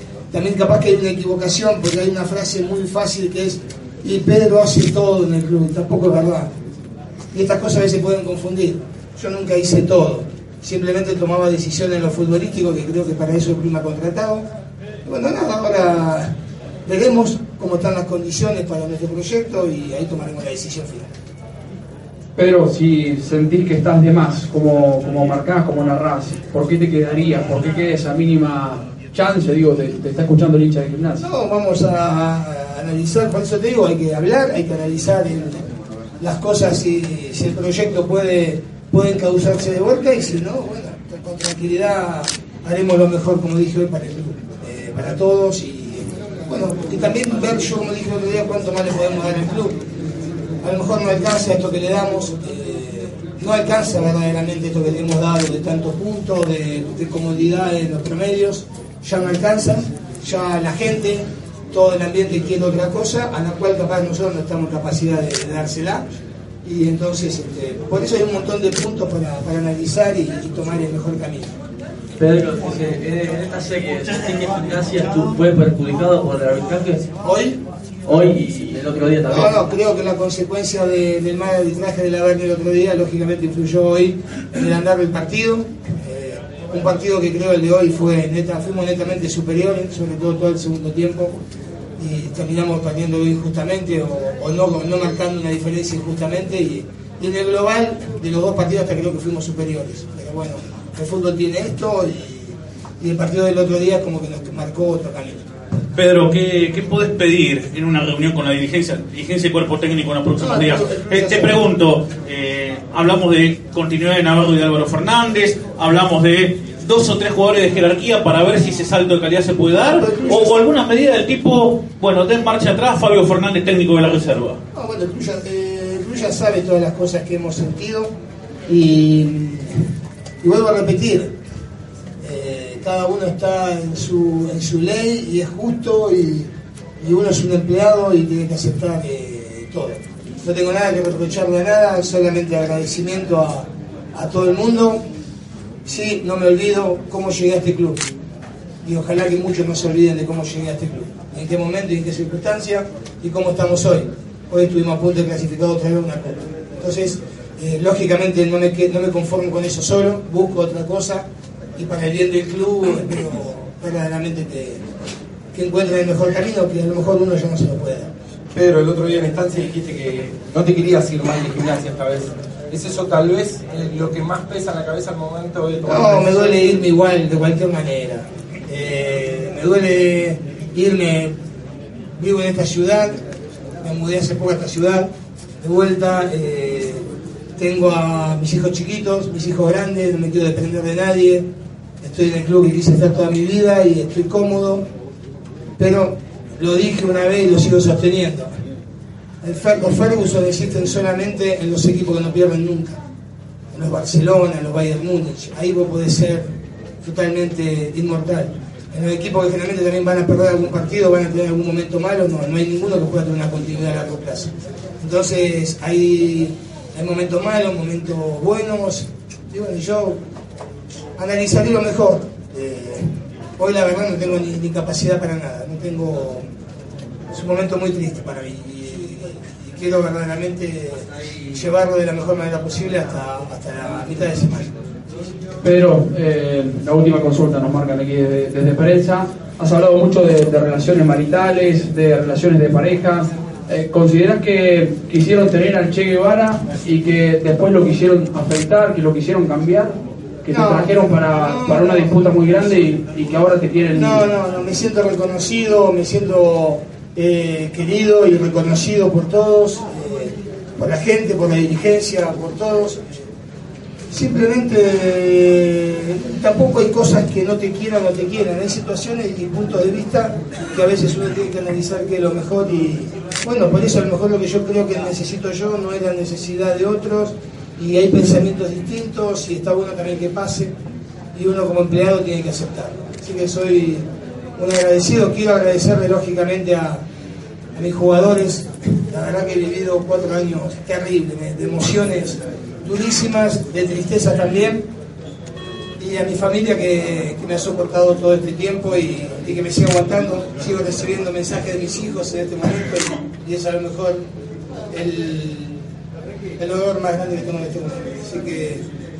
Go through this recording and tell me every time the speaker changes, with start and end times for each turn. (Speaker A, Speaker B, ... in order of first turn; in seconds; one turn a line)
Speaker A: 0.3-6.5
Speaker A: 7.3-14.5
Speaker A: 15.1-16.3
Speaker A: 16.9-21.1
Speaker B: 22.4-31.2
Speaker A: 31.2-35.7
Speaker A: 36.2-49.8
Speaker A: 50.6-66.1
Speaker A: 66.6-71.5
Speaker C: 72.2-77.1
Speaker A: 77.2-77.6
Speaker C: 78.0-79.6
Speaker A: 79.3-91.4
Speaker A: 92.0-105.5
Speaker D: 106.0-124.6
Speaker A: 110.4-111.6
Speaker A: 119.9-120.6
Speaker A: 124.7-128.1
Speaker A: 128.7-129.8
Speaker A: 130.4-131.3
Speaker A: 132.2-136.5
Speaker A: 137.0-145.0
Speaker A: 145.8-148.0
Speaker A: 148.8-164.8
Speaker A: 165.5-168.1
Speaker E: 168.5-176.7
Speaker A: 175.8-181.3
Speaker A: 182.2-183.2
Speaker A: 183.8-185.1
Speaker A: 185.6-191.5
Speaker A: 192.0-194.9
Speaker A: 195.8-198.6
Speaker A: 199.4-203.0
Speaker A: 203.7-206.5
Speaker A: 207.0-220.2
Speaker A: 221.2-226.5
Speaker A: 227.3-234.7
Speaker B: 235.6-254.2
Speaker A: 250.5-252.2
Speaker A: 253.9-263.0
Speaker A: 264.1-280.7
Speaker A: 281.3-287.0
Speaker A: 287.8-294.9
Speaker A: 296.0-304.2
Speaker A: 304.9-305.8
Speaker A: 306.6-308.8